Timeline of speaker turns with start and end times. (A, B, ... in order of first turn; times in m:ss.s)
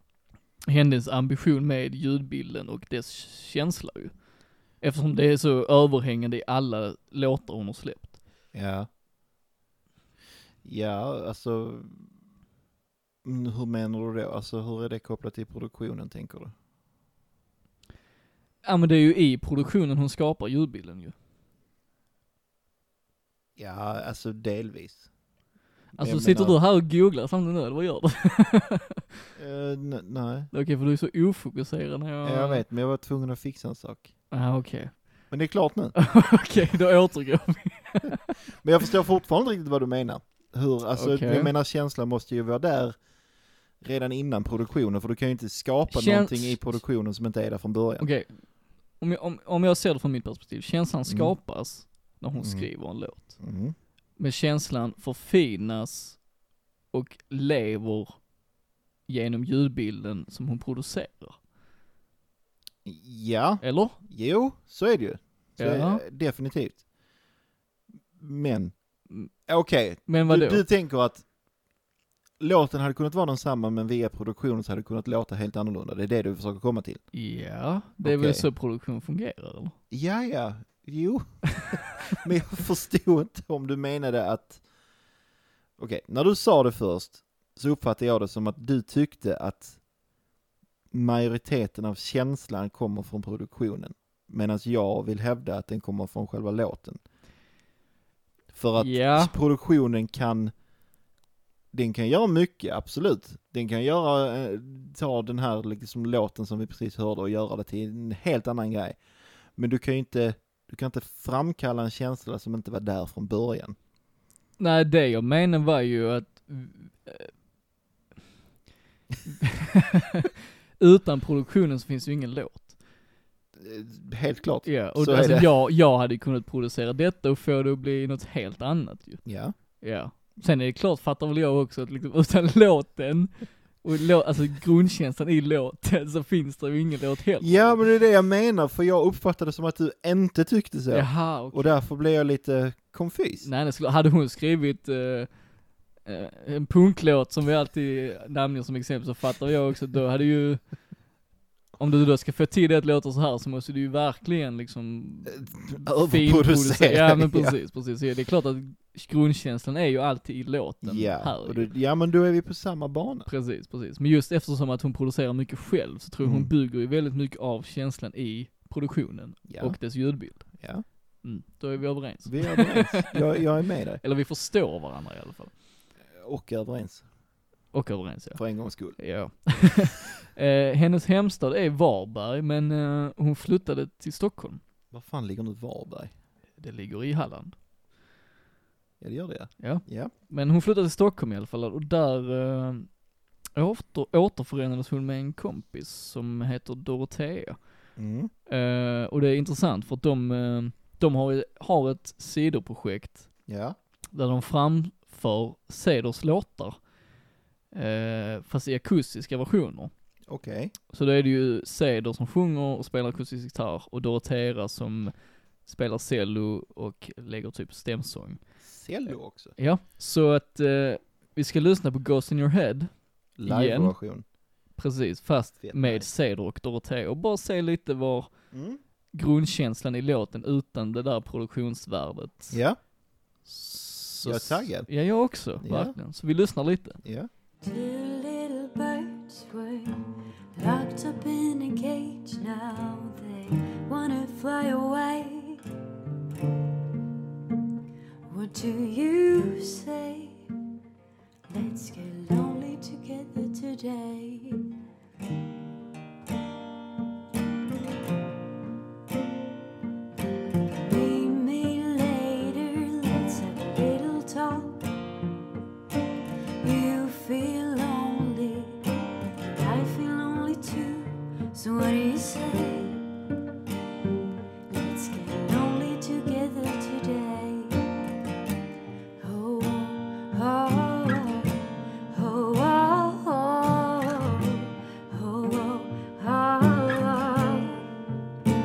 0:00.7-0:08.2 A
0:08.5-0:08.9 B
0:10.6-0:12.2 B
0:13.2-0:16.5 B
0:18.6-0:21.1 A
0:23.6-0:25.1 B
0:25.9-0:26.6 B
0:26.0-0:29.0 A
0:29.4-0:30.5 B
0:30.5-0:32.6 A
0:32.2-0:34.2 B
0:34.3-0:35.3 A
0:35.3-0:36.0 B
0:36.0-0:38.2 A
0:38.5-0:43.0 B
0:41.0-0:41.5 A
0:43.8-0:48.1 B
0:45.9-0:46.8 A
0:48.0-0:53.4 A
0:51.1-0:51.4 B
0:52.4-0:53.8 B
0:54.2-0:56.3 A
0:56.9-0:58.3 A
0:59.1-1:01.4 A
1:02.8-1:06.8 B
1:03.6-1:04.0 A
1:05.6-1:06.0 A
1:08.1-1:11.3 B
1:10.1-1:10.6 A
1:12.4-1:17.1 B
1:17.1-1:19.8 A
1:18.0-1:18.4 B
1:19.9-1:24.6 B
1:25.8-1:29.8 B
1:30.9-1:37.0 B
1:38.5-1:40.5 B
1:38.8-1:39.4 A
1:41.7-1:49.0 B
1:49.5-1:53.8 B
1:54.6-1:57.3 A
1:59.3-2:02.8 A
2:03.6-2:05.5 B
2:04.6-2:17.8 A
2:09.3-2:09.6 B
2:17.4-2:23.5 B
2:20.9-2:21.7 A
2:23.4-2:30.8 A
2:31.8-2:41.7 A
2:35.3-2:37.6 B
2:40.8-2:43.3 B
2:43.3-2:53.5 A
2:46.2-2:46.5 B
2:49.5-2:50.9 B
2:52.2-2:54.0 B
2:54.0-2:55.5 A
2:56.1-2:57.1 B
2:57.7-3:04.6 A
2:58.4-2:59.6 B
3:04.9-3:06.2 B
3:06.6-3:07.6 A
3:09.0-3:10.1 B
3:09.6-3:13.0 A
3:13.5-3:17.8 A
3:18.0-3:18.3 B
3:18.5-3:23.3 A
3:23.5-3:23.8 B
3:24.1-3:26.9 A
3:27.7-3:29.9 A
3:30.3-3:30.7 B
3:30.9-3:38.4 A
3:38.6-3:39.5 B
3:39.1-3:44.0 A
3:43.4-3:44.2 B
3:44.7-3:48.5 A
3:45.6-3:46.1 B
3:48.5-3:48.8 B
3:49.1-3:52.7 A
3:52.5-3:52.8 B
3:53.4-3:57.0 A
3:54.2-3:56.0 B
3:57.0-3:57.3 B
3:57.6-4:00.0 C
4:00.6-4:05.6 C
4:08.3-4:10.5 C
4:11.5-4:14.7 C
4:20.5-4:24.8 C
4:26.6-4:33.1 C
4:34.7-4:37.9 C
4:39.2-4:41.6 C
4:42.1-4:47.9 C